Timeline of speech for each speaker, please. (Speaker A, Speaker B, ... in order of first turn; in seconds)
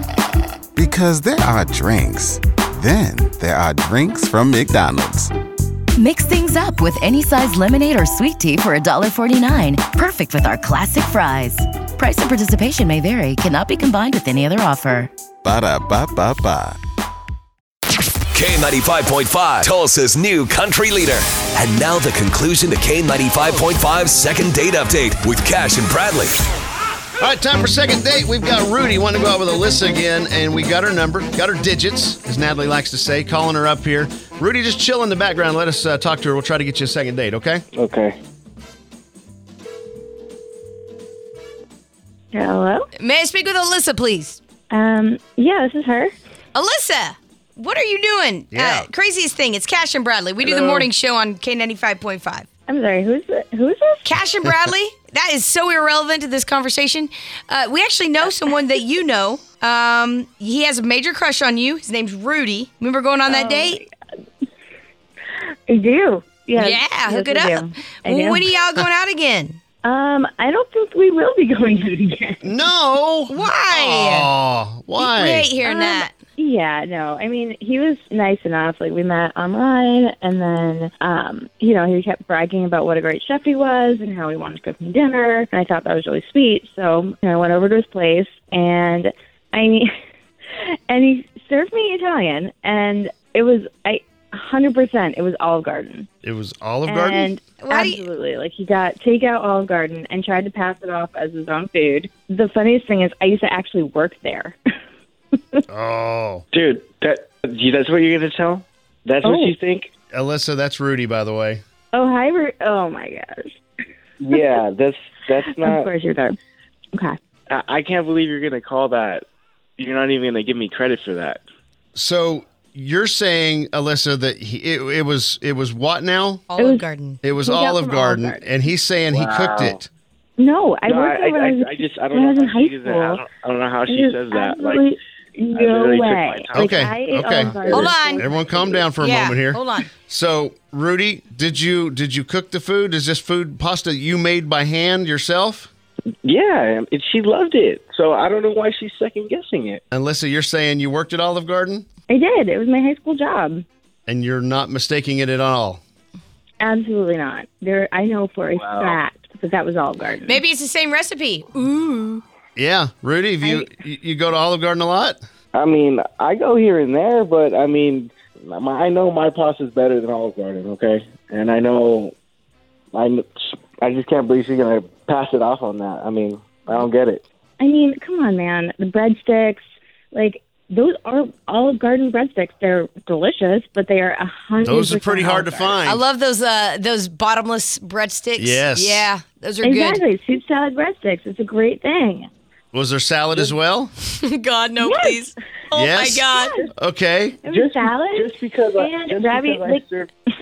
Speaker A: 0.8-5.3, 15.4-16.8
Speaker B: 6.0-15.1
Speaker C: 18.3-26.4
Speaker D: 27.2-37.6, 48.5-48.9, 72.4-75.5, 96.2-97.3, 105.7-106.4, 110.1-111.6, 122.0-126.4, 127.2-129.9, 136.5-145.7, 149.9-151.9, 154.1-155.8, 162.6-165.2, 184.6-186.0, 188.4-189.1, 192.7-193.9, 195.7-197.4
Speaker E: 37.7-38.2, 106.5-109.9, 114.2-115.9, 117.5-119.2, 119.8-121.4, 129.1-129.8, 130.9-134.9, 135.6-136.9, 137.4-138.0, 146.2-149.8, 158.6-159.0, 165.5-172.2, 172.9-177.2, 197.4-200.1
Speaker F: 42.3-42.9, 44.7-46.1, 52.7-54.0, 63.3-63.9, 65.7-68.5, 69.8-72.7, 75.6-89.9, 90.5-96.1, 96.9-104.6, 109.2-109.5, 111.9-113.5, 115.6-116.3, 126.6-128.4, 130.4-133.2, 133.9-138.8, 152.1-153.7, 156.6-160.4, 163.4-163.7, 177.6-179.6, 180.1-185.8, 189.6-192.3, 194.8-195.2, 196.3-196.7, 197.4-199.9
Speaker G: 43.0-44.4, 46.5-52.5, 54.0-63.8, 66.6-69.6, 73.3-74.3, 75.0-76.1, 97.6-98.0, 126.5-127.2, 137.7-138.3, 139.0-139.9, 160.3-162.2, 185.8-190.0, 194.2-196.6